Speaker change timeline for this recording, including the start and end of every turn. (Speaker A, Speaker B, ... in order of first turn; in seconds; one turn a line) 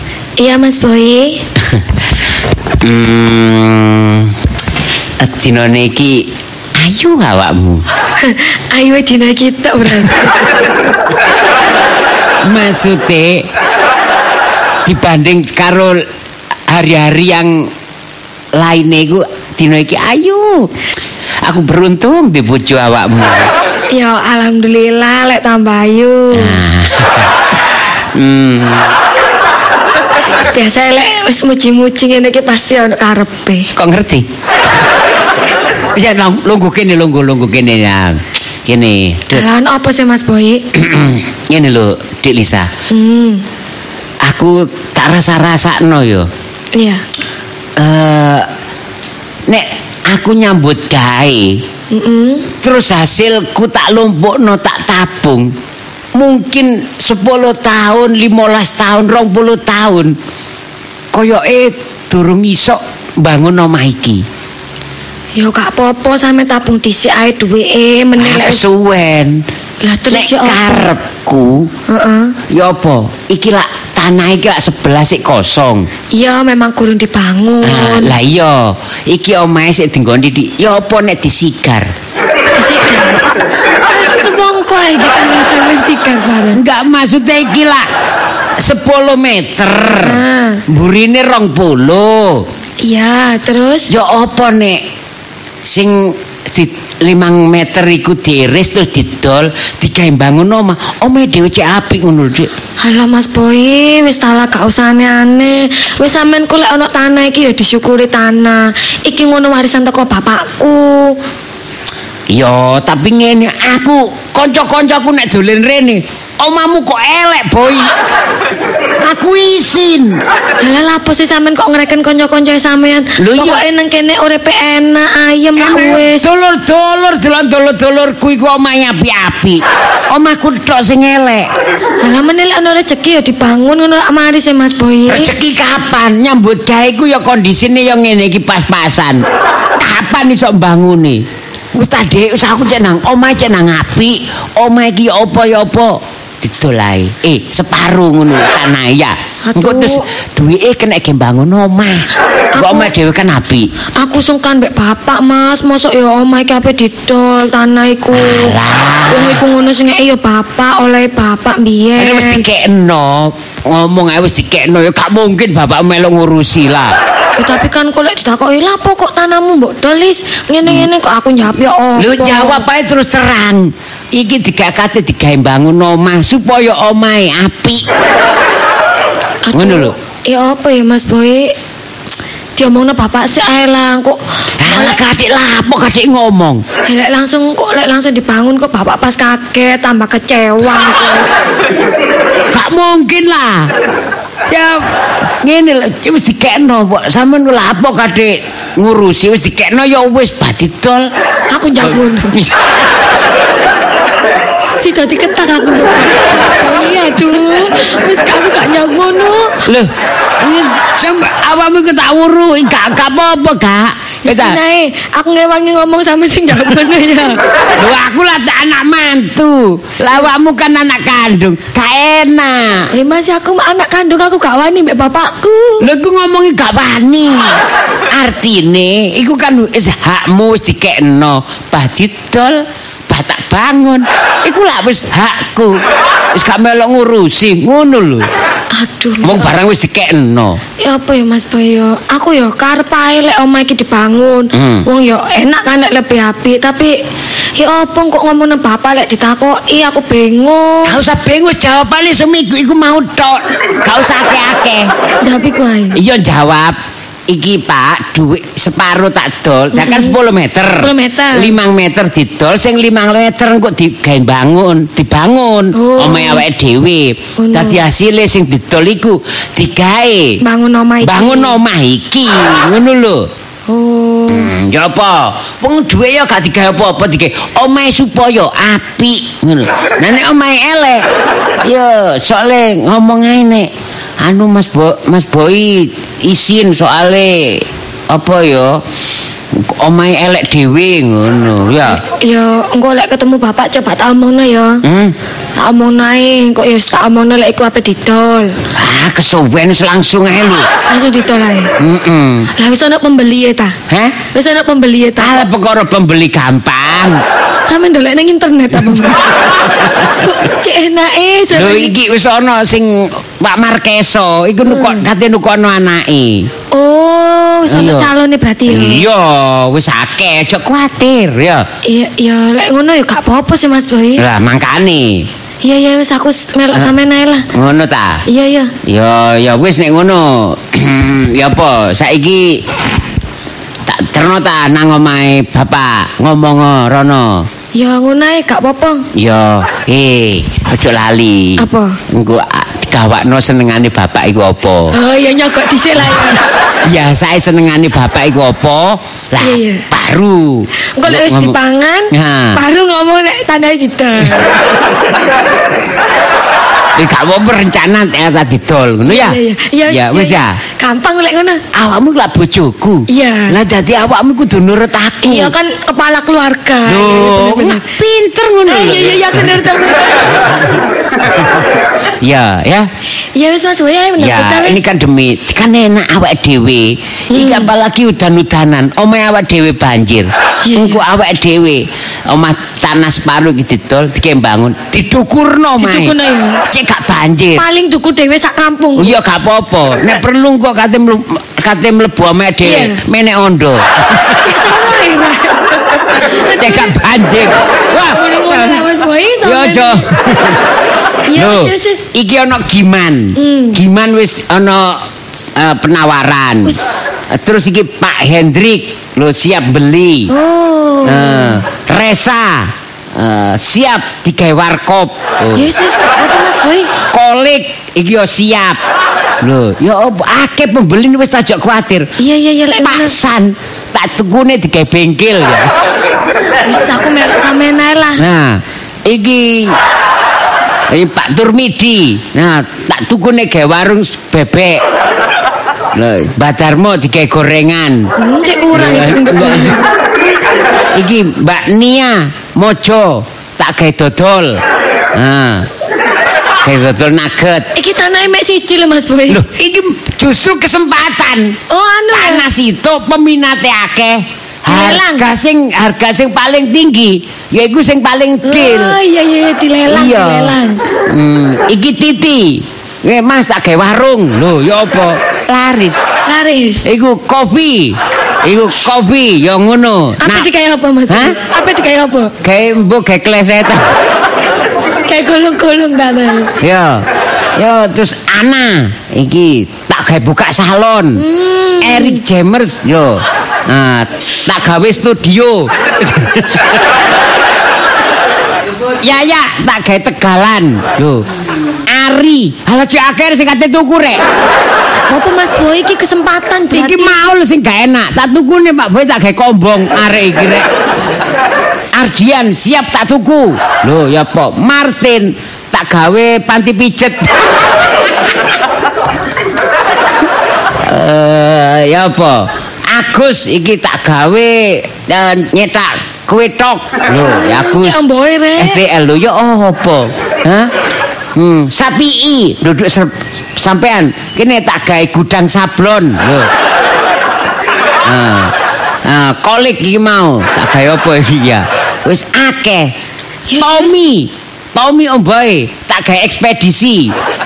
Speaker A: 0.4-1.4
Speaker B: 2.8-4.3
Speaker B: 5.2-7.8
Speaker A: 8.2-10.4
Speaker B: 12.4-13.5
Speaker B: 14.8-16.0
Speaker B: 16.7-17.7
Speaker B: 18.6-20.7
Speaker B: 21.4-23.5
Speaker A: 23.9-26.6
Speaker B: 26.3-27.3
Speaker B: 28.1-28.9
Speaker A: 30.5-33.7
Speaker B: 33.7-34.2
Speaker B: 35.9-39.5
Speaker A: 39.3-40.6
Speaker B: 40.7-42.7
Speaker A: 42.9-43.4
Speaker B: 44.2-46.3
Speaker A: 46.7-47.0
Speaker B: 47.8-48.5
Speaker B: 49.5-51.6
Speaker A: 51.9-52.5
Speaker B: 52.6-55.5
Speaker B: 56.1-60.1
Speaker B: 61.1-64.2
Speaker A: 65.3-68.6
Speaker B: 68.2-69.4
Speaker A: 69.8-70.8
Speaker B: 70.1-71.7
Speaker A: 71.9-72.3
Speaker B: 72.5-75.9
Speaker A: 76.1-78.1
Speaker B: 77.6-81.9
Speaker A: 82.5-83.2
Speaker A: 83.8-86.6
Speaker B: 86.5-87.9
Speaker B: 88.6-92.5
Speaker A: 89.9-90.6
Speaker A: 92.8-93.9
Speaker B: 93.9-94.8
Speaker B: 95.6-102.5
Speaker A: 102.8-111.2
Speaker B: 112.3-117.9
Speaker B: 119.0-120.2
Speaker A: 120.6-126.2
Speaker B: 123.2-123.6
Speaker B: 125.6-131.5
Speaker A: 132.0-135.3
Speaker B: 135.1-139.2
Speaker B: 139.8-141.2
Speaker B: 141.7-153.7
Speaker A: 149.4-150.0
Speaker A: 152.5-152.9
Speaker A: 154.0-158.5
Speaker B: 158.1-159.4
Speaker A: 159.1-162.4
Speaker B: 161.9-166.9
Speaker A: 167.4-172.6
Speaker B: 172.0-177.9
Speaker A: 179.4-181.5
Speaker B: 179.5-179.9
Speaker A: 182.6-185.0
Speaker B: 184.6-186.6
Speaker A: 186.8-191.3
Speaker B: 192.5-193.7
Speaker B: 194.5-194.8
Speaker B: 195.4-201.1
Speaker A: 201.5-202.3
Speaker B: 201.8-202.8
Speaker A: 204.8-209.5
Speaker B: 209.7-214.6
Speaker A: 214.2-217.4
Speaker B: 217.8-222.9
Speaker A: 222.9-225.9
Speaker B: 225.8-227.6
Speaker B: 228.1-235.8
Speaker B: 236.3-238.3
Speaker A: 238.7-239.5
Speaker B: 239.2-240.6
Speaker A: 240.8-246.9
Speaker B: 244.5-244.8
Speaker A: 247.6-250.9
Speaker B: 250.8-254.9
Speaker A: 255.2-256.0
Speaker B: 255.9-256.8
Speaker B: 257.3-270.4
Speaker A: 259.8-260.1
Speaker A: 260.8-261.5
Speaker A: 265.8-266.4
Speaker A: 267.4-267.8
Speaker A: 270.4-271.5
Speaker B: 271.0-273.3
Speaker A: 273.7-274.5
Speaker B: 274.3-281.1
Speaker B: 281.6-283.7
Speaker B: 284.2-288.8
Speaker B: 289.5-292.0
Speaker A: 291.9-294.8
Speaker B: 294.8-295.1
Speaker A: 295.5-298.5
Speaker B: 298.7-300.7
Speaker A: 300.9-301.7
Speaker B: 301.8-302.5
Speaker A: 302.6-303.8
Speaker B: 303.9-304.2
Speaker A: 304.3-305.4
Speaker B: 305.2-307.2
Speaker A: 307.7-309.2
Speaker A: 310.2-311.9
Speaker B: 311.5-316.5
Speaker A: 314.7-315.0
Speaker A: 316.7-319.0
Speaker B: 317.7-318.1
Speaker B: 318.7-321.6
Speaker A: 321.9-324.2
Speaker B: 324.2-325.3
Speaker A: 325.6-327.4
Speaker B: 327.5-328.2
Speaker A: 328.3-328.7
Speaker B: 328.8-332.6
Speaker B: 333.9-337.5
Speaker A: 337.7-339.1
Speaker B: 339.1-344.9
Speaker A: 341.6-342.0
Speaker A: 344.9-346.4
Speaker B: 346.8-351.6
Speaker A: 349.4-349.8
Speaker A: 351.0-354.4
Speaker B: 352.1-352.6
Speaker B: 356.9-360.5
Speaker A: 359.1-361.6
Speaker B: 361.7-365.5
Speaker A: 363.1-363.5
Speaker A: 365.2-367.8
Speaker B: 366.9-369.6
Speaker A: 368.7-370.2
Speaker B: 372.2-372.9
Speaker A: 373.3-374.8
Speaker B: 374.2-386.1
Speaker A: 377.3-377.7
Speaker A: 380.6-381.0
Speaker A: 385.8-386.6
Speaker B: 386.7-387.6
Speaker A: 387.6-389.1
Speaker B: 389.0-394.5
Speaker A: 392.6-393.0
Speaker A: 394.4-397.0
Speaker B: 396.5-398.9
Speaker A: 397.8-400.0
Speaker B: 399.4-400.6
Speaker A: 401.3-402.0
Speaker B: 401.3-405.0
Speaker A: 403.4-403.8
Speaker B: 405.6-410.3
Speaker A: 406.6-406.9
Speaker A: 410.3-411.6
Speaker B: 411.0-415.7
Speaker A: 415.5-416.9
Speaker B: 417.1-418.8
Speaker B: 419.4-422.1
Speaker A: 422.2-423.1
Speaker B: 422.8-425.7
Speaker A: 426.6-428.2
Speaker B: 428.2-429.8
Speaker B: 430.9-434.8
Speaker B: 435.9-438.1
Speaker A: 438.2-439.8
Speaker B: 438.7-439.8
Speaker B: 440.9-444.6
Speaker B: 445.1-445.7
Speaker B: 446.6-447.7
Speaker A: 447.8-449.4
Speaker B: 449.3-451.6
Speaker A: 451.7-452.4
Speaker B: 452.1-459.0
Speaker A: 454.6-455.2
Speaker A: 458.4-460.8
Speaker B: 459.9-460.6
Speaker B: 461.1-466.0
Speaker A: 466.2-466.9
Speaker B: 466.8-470.5
Speaker A: 470.2-472.3
Speaker B: 471.1-471.4
Speaker B: 472.4-473.8
Speaker A: 475.0-476.5
Speaker B: 476.6-477.0
Speaker B: 477.6-481.2
Speaker A: 481.2-482.2
Speaker B: 481.8-486.7
Speaker B: 488.9-491.2
Speaker B: 491.9-494.2
Speaker A: 495.0-497.1
Speaker B: 496.7-500.6
Speaker B: 501.9-507.4
Speaker B: 510.8-518.0
Speaker A: 517.2-518.8
Speaker B: 518.6-520.7
Speaker B: 521.4-526.5
Speaker B: 528.0-528.5
Speaker B: 529.0-532.9
Speaker A: 533.5-534.0
Speaker B: 533.5-537.1